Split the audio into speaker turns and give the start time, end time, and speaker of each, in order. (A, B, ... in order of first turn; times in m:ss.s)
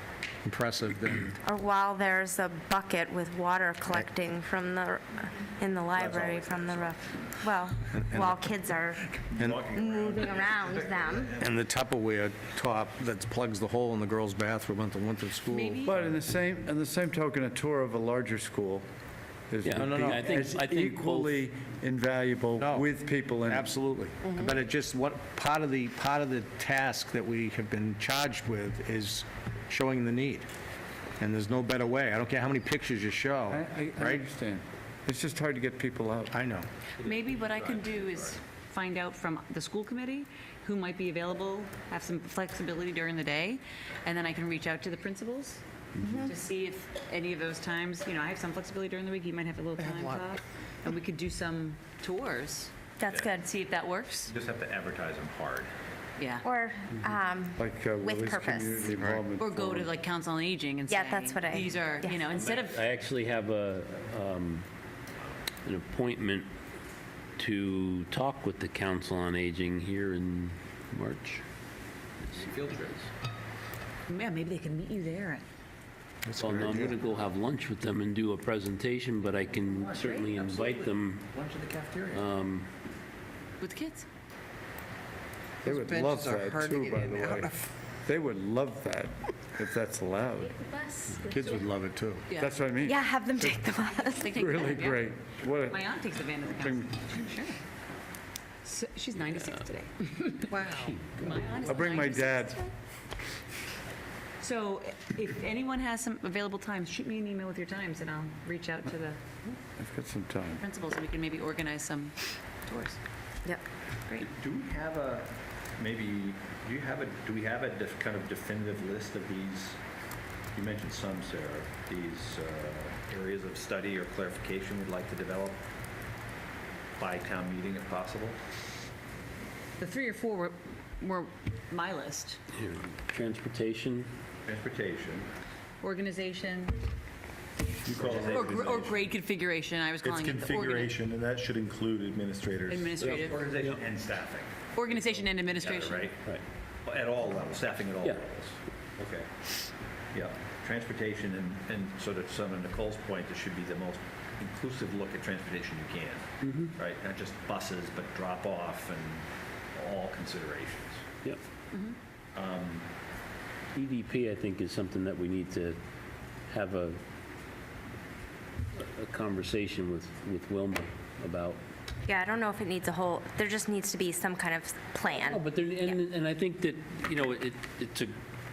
0:00.4-0:01.4 A
0:01.4-0:09.0 B
0:06.0-0:07.4 C
0:07.9-0:09.7 A
0:09.3-0:11.5 C
0:09.8-0:11.3 B
0:10.5-0:10.9 D
0:11.4-0:15.8 A
0:15.5-0:16.2 E
0:15.8-0:18.9 F
0:19.5-0:23.8 F
0:19.6-0:21.4 G
0:19.8-0:20.4 A
0:22.6-0:30.5 A
0:31.2-0:34.2 A
0:33.5-0:36.3 F
0:36.3-0:36.7 A
0:37.0-0:38.4 C
0:37.0-0:45.6 E
0:46.2-0:52.7 E
0:49.8-0:50.2 H
0:53.1-0:53.4 C
0:53.1-0:53.4 B
0:53.4-0:54.3 E
0:54.2-0:55.7 C
0:56.2-0:56.5 E
0:56.4-0:59.0 B
0:57.6-0:59.9 F
0:59.0-0:59.2 A
0:59.4-1:02.8 E
1:00.9-1:02.2 B
1:02.3-1:04.6 G
1:05.7-1:06.5 G
1:07.4-1:11.4 G
1:12.3-1:12.6 G
1:12.3-1:13.1 C
1:14.1-1:15.4 E
1:16.2-1:17.0 A
1:16.4-1:21.3 G
1:19.6-1:22.3 C
1:22.1-1:22.7 G
1:23.6-1:24.1 E
1:25.6-1:27.5 F
1:25.6-1:27.6 H
1:28.0-1:30.7 F
1:31.3-1:32.3 A
1:32.3-1:32.6 E
1:32.3-1:33.6 F
1:32.8-1:34.3 B
1:34.1-1:35.1 E
1:34.3-1:35.9 F
1:35.7-1:37.6 E
1:36.4-1:37.1 F
1:38.6-1:42.7 E
1:40.5-1:40.9 H
1:40.7-1:41.7 G
1:41.6-1:42.6 F
1:44.4-1:49.2 E
1:49.8-1:50.6 F
1:50.6-1:53.0 E
1:54.2-1:59.8 C
2:00.5-2:05.6 C
2:07.0-2:08.4 C
2:09.8-2:12.4 E
2:12.6-2:14.1 G
2:14.5-2:15.3 C
2:15.8-2:16.9 E
2:17.8-2:19.1 D
2:17.9-2:18.7 C
2:18.3-2:20.9 E
2:20.0-2:23.1 D
2:22.7-2:23.5 E
2:23.0-2:26.2 C
2:24.8-2:26.1 E
2:26.8-2:29.3 C
2:30.1-2:41.0 C
2:36.4-2:36.7 G
2:42.3-2:42.9 C
2:43.8-2:45.8 G
2:46.5-2:47.0 G
2:48.8-2:51.6 G
2:52.1-2:55.4 B
2:55.1-2:58.1 G